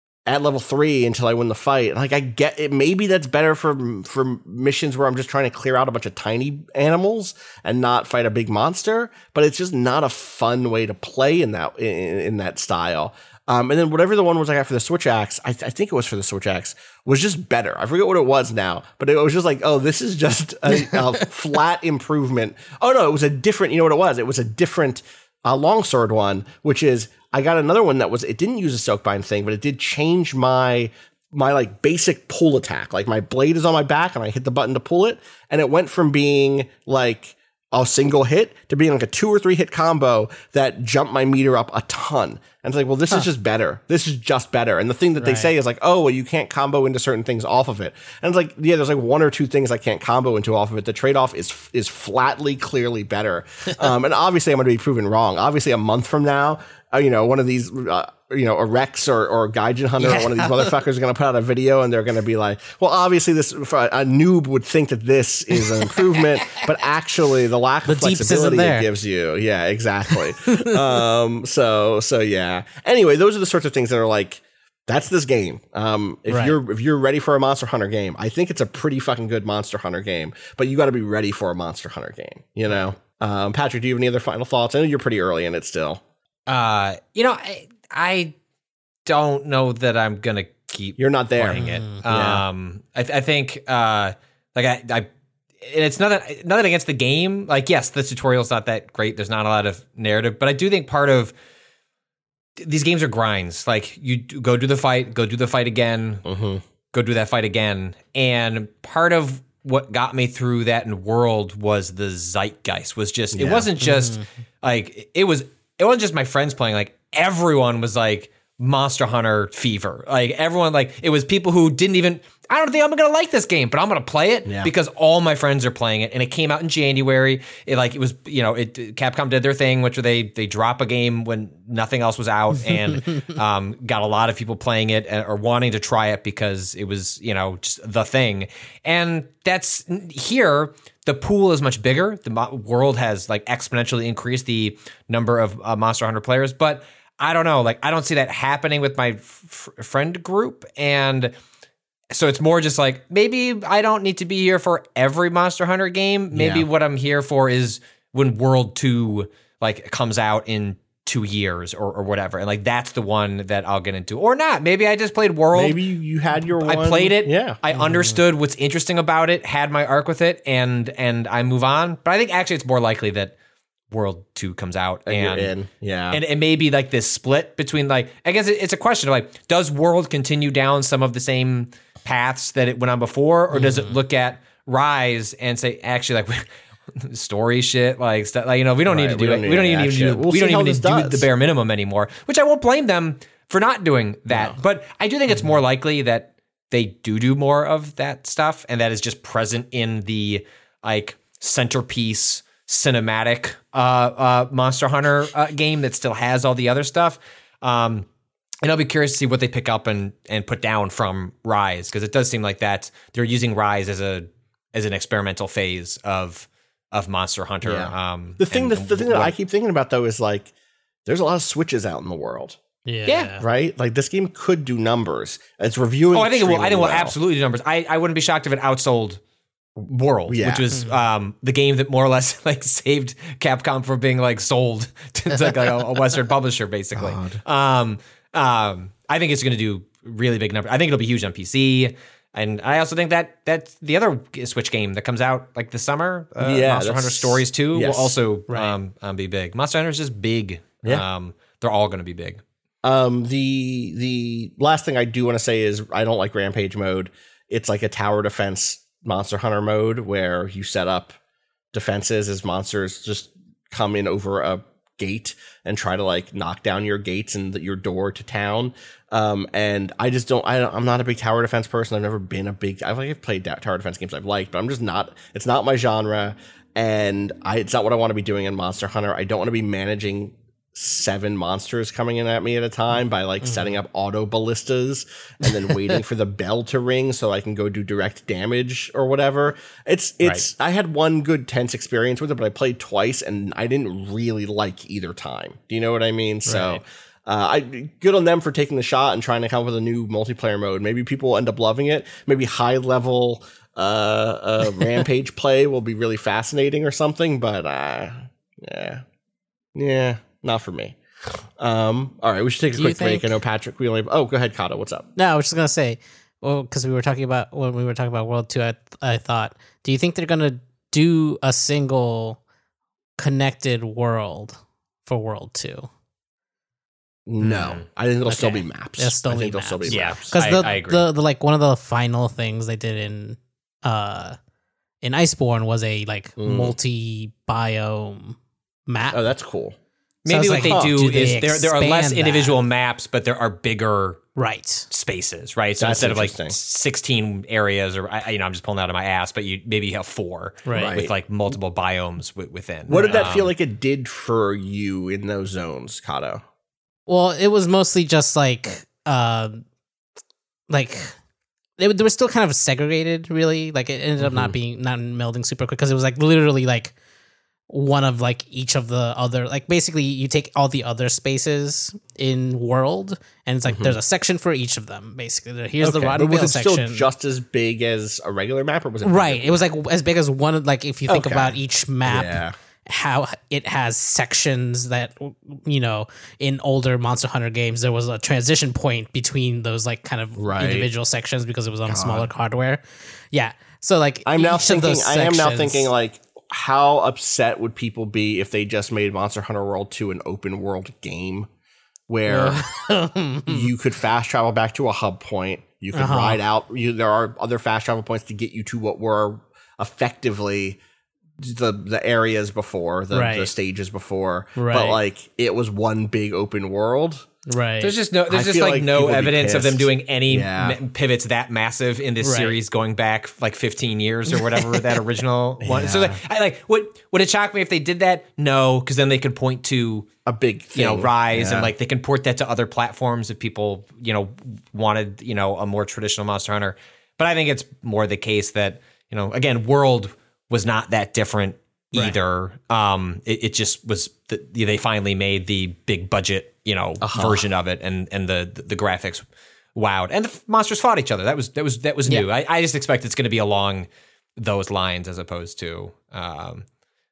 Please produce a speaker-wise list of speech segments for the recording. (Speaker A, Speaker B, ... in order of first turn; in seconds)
Speaker A: 0.3-86.0, 91.0-92.4, 106.2-106.6, 113.3-113.7, 124.5-124.7, 156.3-156.7, 165.5-167.6, 175.1-176.2, 188.8-191.3, 194.3-194.6, 217.6-220.5, 221.1-222.6, 223.4-227.1, 230.3-230.7, 236.9-237.4, 246.4-248.1, 252.8-261.2, 261.7-309.0, 309.7-311.0, 311.6-315.1, 327.3-330.3, 336.4-336.8, 339.1-339.8, 340.6-340.9, 345.8-346.6, 350.7-351.1, 352.9-356.4, 364.2-364.6, 373.6-374.0, 375.8-379.6, 381.1-382.5, 390.4-390.9, 391.9-392.3, 394.2-401.5, 402.1-402.6, 403.5-410.8, 411.4-417.3, 418.3-420.8, 425.6-426.2, 430.3-431.7, 447.0-447.4
Speaker B: 45.2-45.5, 60.0-60.7, 67.9-68.9, 76.3-76.5, 91.5-92.0, 113.8-114.2, 167.7-168.2, 183.5-183.9, 222.8-223.4, 248.5-248.7, 283.4-283.7, 285.4-286.0, 296.4-296.8, 312.8-313.3, 315.1-322.4, 323.2-325.9, 328.3-334.4, 335.0-339.2, 340.3-342.6, 344.4-344.9, 350.7-351.0, 357.1-359.6, 360.7-361.1, 361.8-366.9, 367.7-377.1, 379.0-395.9, 402.3-403.7, 405.9-406.4, 413.1-413.5, 414.6-415.0, 417.5-417.9, 422.2-422.6, 424.4-425.0
Speaker C: 86.5-88.3, 89.0-95.1, 95.6-101.3, 102.6-106.2, 106.9-151.3, 152.1-165.8, 166.6-173.3, 173.9-175.5, 176.1-186.4, 186.9-208.1, 208.6-219.3, 223.1-223.4, 226.1-229.2, 229.8-252.4, 327.4-327.8, 329.9-331.1, 340.2-344.2, 344.9-353.5, 417.8-430.1, 430.7-449.2, 449.7-456.6